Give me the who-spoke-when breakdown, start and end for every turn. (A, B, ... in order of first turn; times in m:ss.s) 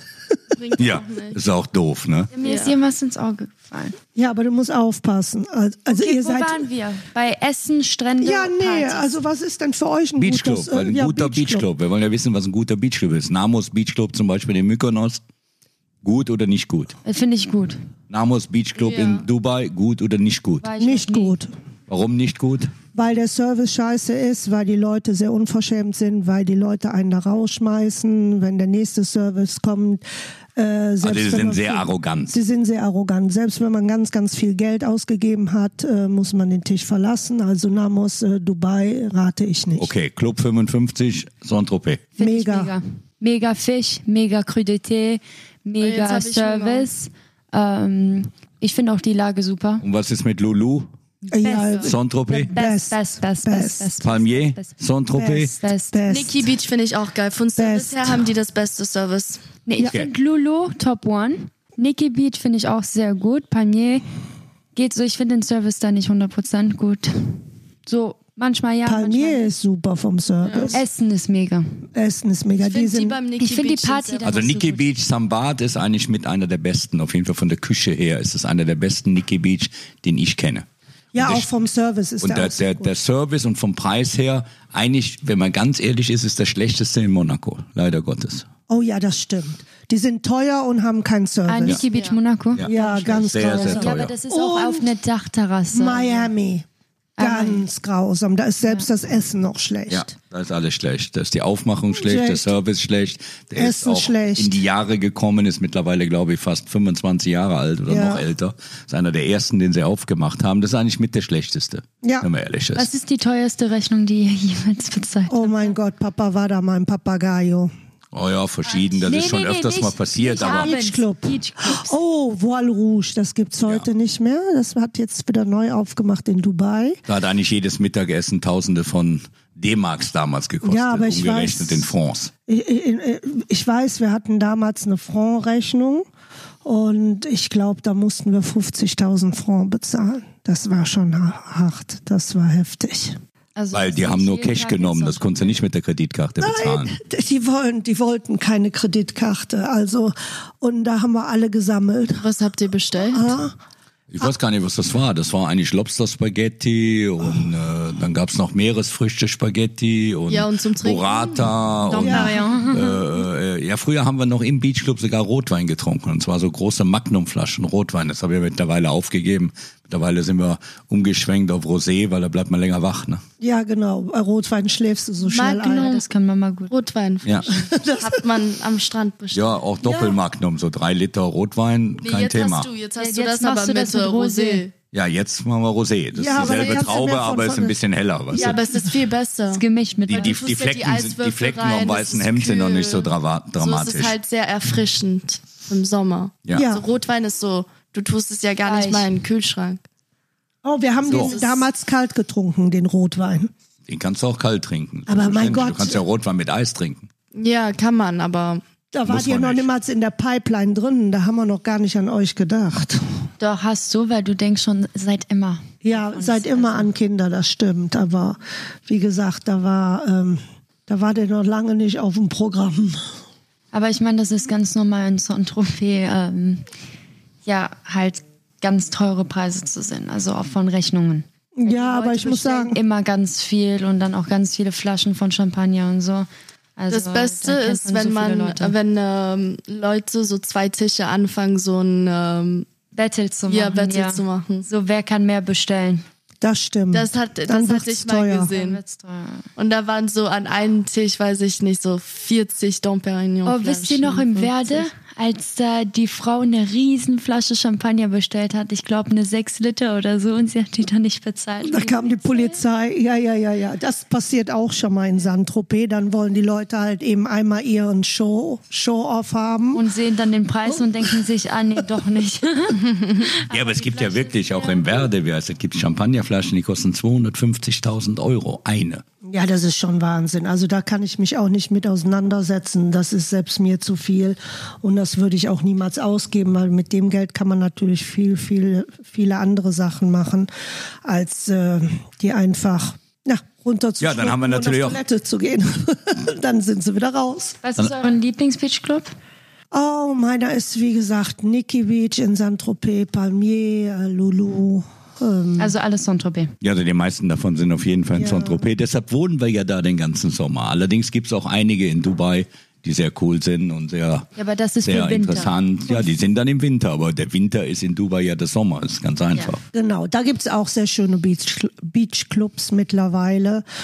0:00.5-0:01.4 A
0:00.8-0:02.3 B
0:02.3-0:04.0 C
0:02.4-0:02.8 A
0:04.1-0:06.7 D
0:05.9-0:09.1 C
0:08.2-0:11.7 D
0:10.2-0:15.2 B
0:16.0-0:17.0 B
0:17.0-0:17.8 C
0:18.1-0:20.6 B
0:18.8-0:19.2 A
0:20.6-0:21.3 C
0:20.8-0:21.5 D
0:21.9-0:22.7 B
0:22.9-0:30.0 D
0:30.5-0:39.9 D
0:31.0-0:32.4 B
0:39.8-0:42.0 B
0:42.2-0:49.8 C
0:42.2-0:42.7 D
0:45.8-0:46.9 A
0:49.8-0:50.9 B
0:51.2-0:54.8 C
0:51.3-0:53.9 D
0:51.5-0:51.9 A
0:51.8-0:52.5 B
0:54.0-0:55.5 B
0:55.2-0:56.5 D
0:55.5-0:56.0 C
0:56.1-0:59.4 A
0:57.6-0:58.3 D
0:59.6-1:04.0 C
0:59.8-1:00.1 B
1:04.7-1:09.5 C
1:08.8-1:10.8 D
1:10.4-1:10.8 A
1:10.7-1:11.8 C
1:11.9-1:13.2 D
1:12.6-1:14.5 A
1:13.4-1:14.8 C
1:14.2-1:20.6 B
1:21.1-1:22.9 D
1:21.2-1:21.5 B
1:22.2-1:28.5 B
1:28.7-1:31.8 D
1:31.5-1:36.3 C
1:31.9-1:32.2 A
1:32.5-1:34.1 B
1:32.6-1:34.9 D
1:35.7-1:36.6 D
1:37.2-1:37.6 C
1:37.2-1:40.1 D
1:39.9-1:52.9 B
1:42.0-1:42.6 D
1:43.6-1:44.6 D
1:47.9-1:48.2 D
1:52.0-1:52.3 D
1:52.8-1:55.8 C
1:55.3-1:57.7 D
1:58.1-2:00.8 B
1:59.0-2:02.0 C
2:00.4-2:07.0 D
2:07.1-2:12.3 B
2:10.6-2:11.9 D
2:12.5-2:16.1 D
2:16.6-2:23.2 D
2:23.5-2:25.6 C
2:23.7-2:26.9 B
2:26.4-2:32.2 D
2:32.2-2:33.4 A
2:33.0-2:33.6 D
2:34.1-2:53.2 B
2:40.3-2:42.4 A
2:41.9-2:43.0 C
2:41.9-2:42.4 D
2:53.4-2:55.9 D
2:55.3-2:56.7 C
2:55.3-2:56.0 A
2:56.7-2:59.6 A
2:57.5-2:58.2 D
2:59.3-3:02.7 B
2:59.8-3:00.2 D
3:02.0-3:04.7 A
3:03.0-3:04.6 C
3:04.9-3:08.6 B
3:06.1-3:07.8 D
3:06.3-3:06.8 A
3:08.3-3:19.8 A
3:09.5-3:10.4 C
3:10.0-3:14.1 B
3:16.5-3:16.8 D
3:18.6-3:19.1 C
3:20.6-3:23.5 D
3:21.1-3:21.6 A
3:21.1-3:21.4 B
3:23.9-3:27.1 B
3:25.1-3:26.0 D
3:27.3-3:28.6 A
3:28.9-3:33.0 D
3:29.0-3:29.7 B
3:33.4-3:36.9 C
3:35.8-3:43.1 D
3:43.7-3:46.6 C
3:47.4-3:58.7 C
3:51.6-3:52.8 D
3:56.9-4:02.7 A
4:02.9-4:06.0 C
4:03.5-4:04.7 A
4:06.4-4:08.5 D
4:06.9-4:08.8 A
4:08.5-4:09.4 C
4:09.6-4:14.9 A
4:13.4-4:22.6 C
4:21.6-4:29.8 D
4:29.7-4:35.1 C
4:30.7-4:31.2 D
4:33.5-4:39.0 B
4:39.2-4:50.5 D
4:51.0-4:57.6 D
4:54.0-4:55.0 B
4:57.6-4:59.1 C
4:59.7-5:05.7 D
5:05.6-5:06.5 C
5:06.6-5:14.3 B
5:08.1-5:08.7 D
5:14.4-5:16.1 C
5:14.8-5:19.6 B
5:19.7-5:23.6 D